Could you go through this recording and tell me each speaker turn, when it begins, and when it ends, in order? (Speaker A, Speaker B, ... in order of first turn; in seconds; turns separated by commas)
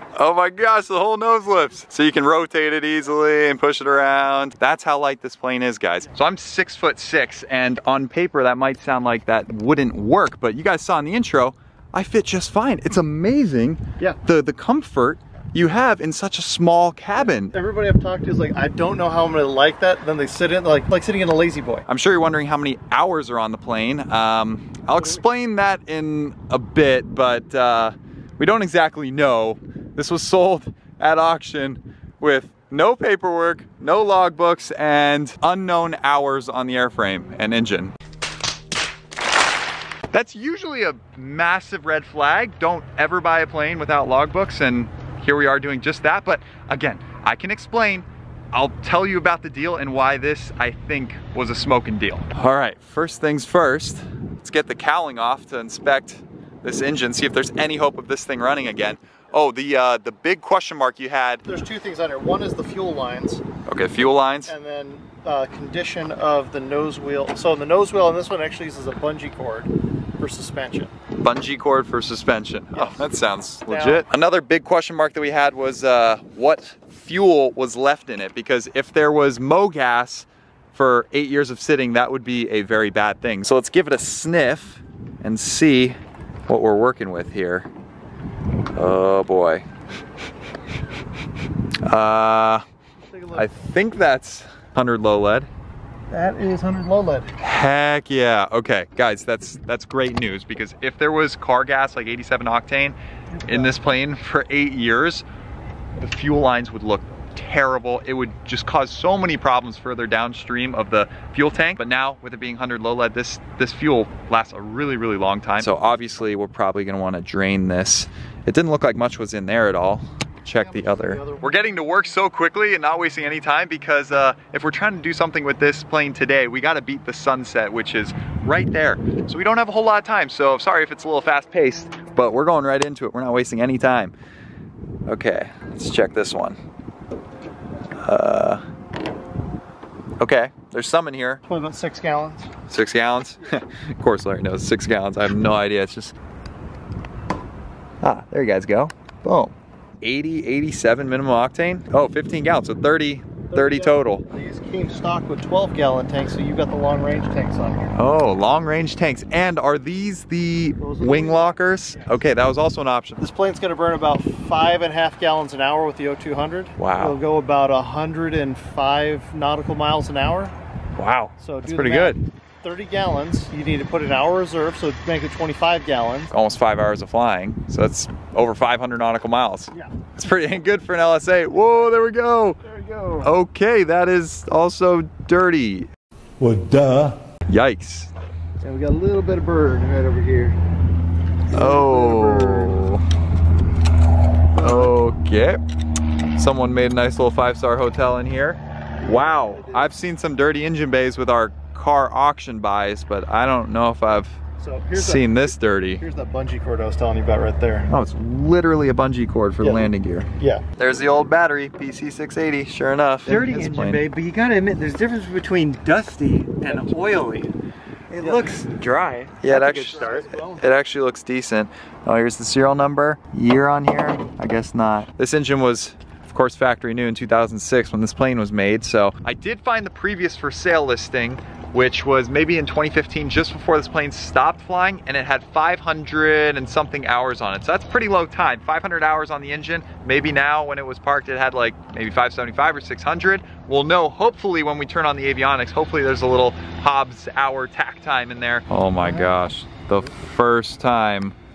Speaker A: 0.1-17.5, Speaker B: 17.2-21.9, Speaker A: 21.9-38.0, Speaker A: 40.1-61.4, Speaker B: 61.5-63.4, Speaker A: 63.7-64.5, Speaker B: 64.5-70.9, Speaker A: 71.2-87.7, Speaker B: 72.7-73.1, Speaker B: 73.7-74.0, Speaker A: 88.8-89.7, Speaker A: 91.8-92.7, Speaker B: 93.0-93.5, Speaker A: 93.3-95.5, Speaker B: 96.1-97.3, Speaker A: 97.4-105.2, Speaker B: 103.4-103.8, Speaker A: 106.0-134.1, Speaker B: 120.5-121.9, Speaker A: 135.1-136.6, Speaker A: 138.0-138.6, Speaker A: 140.2-141.4, Speaker B: 141.4-142.5, Speaker A: 142.7-146.2, Speaker A: 148.0-154.2, Speaker B: 153.5-157.9, Speaker A: 157.9-163.2, Speaker B: 160.8-162.2, Speaker B: 163.2-170.6, Speaker A: 166.8-167.2, Speaker A: 170.9-172.2, Speaker B: 171.4-176.3, Speaker A: 176.3-182.6, Speaker B: 182.6-183.3, Speaker A: 183.2-185.9, Speaker A: 186.4-188.1, Speaker B: 188.6-190.6, Speaker B: 191.5-192.8, Speaker A: 191.5-193.0, Speaker B: 194.6-194.9, Speaker A: 194.6-195.6, Speaker A: 196.4-204.4, Speaker B: 199.0-199.9, Speaker B: 204.6-207.9, Speaker A: 204.9-206.0, Speaker A: 207.9-214.0, Speaker B: 209.6-210.6, Speaker C: 213.3-217.5, Speaker C: 218.1-220.3, Speaker A: 218.2-218.6, Speaker A: 219.4-251.4, Speaker B: 219.5-220.6, Speaker B: 249.0-249.4